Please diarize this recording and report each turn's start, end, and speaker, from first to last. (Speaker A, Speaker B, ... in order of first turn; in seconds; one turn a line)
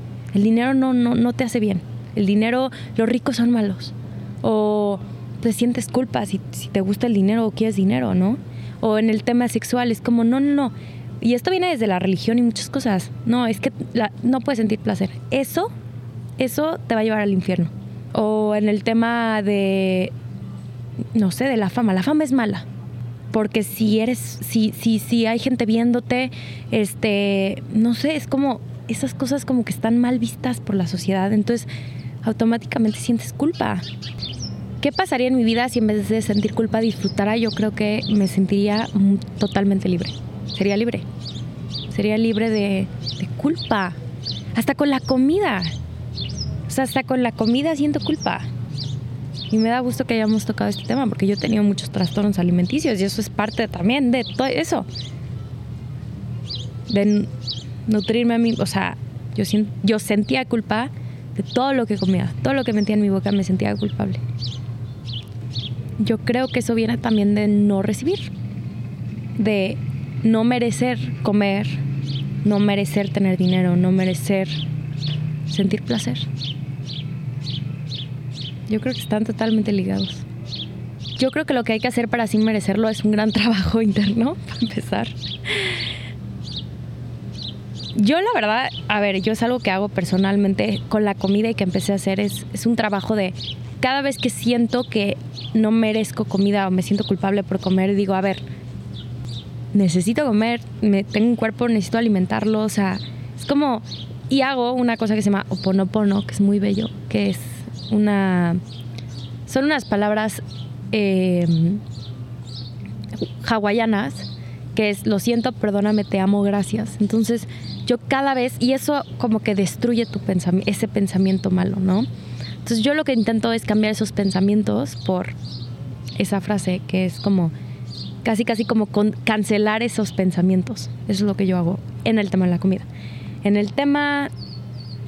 Speaker A: 0.3-15.7
Speaker A: 16.4-20.1
Speaker A: 21.1-22.6
Speaker A: 23.3-31.7
Speaker A: 32.2-33.9
Speaker A: 34.8-41.1
Speaker A: 41.9-44.0
Speaker A: 44.5-45.7
Speaker A: 46.7-48.5
Speaker A: 49.5-54.9
Speaker A: 56.9-57.3
Speaker A: 57.9-64.2
Speaker A: 66.0-68.3
Speaker A: 69.4-71.8
Speaker A: 72.4-74.6
Speaker A: 75.5-76.2
Speaker A: 78.7-80.2
Speaker A: 81.2-85.8
Speaker A: 88.0-98.5
Speaker A: 99.7-108.6
Speaker A: 109.5-111.8
Speaker A: 113.2-122.1
Speaker A: 122.6-125.4
Speaker A: 126.2-127.5
Speaker A: 128.2-132.9
Speaker A: 133.4-134.3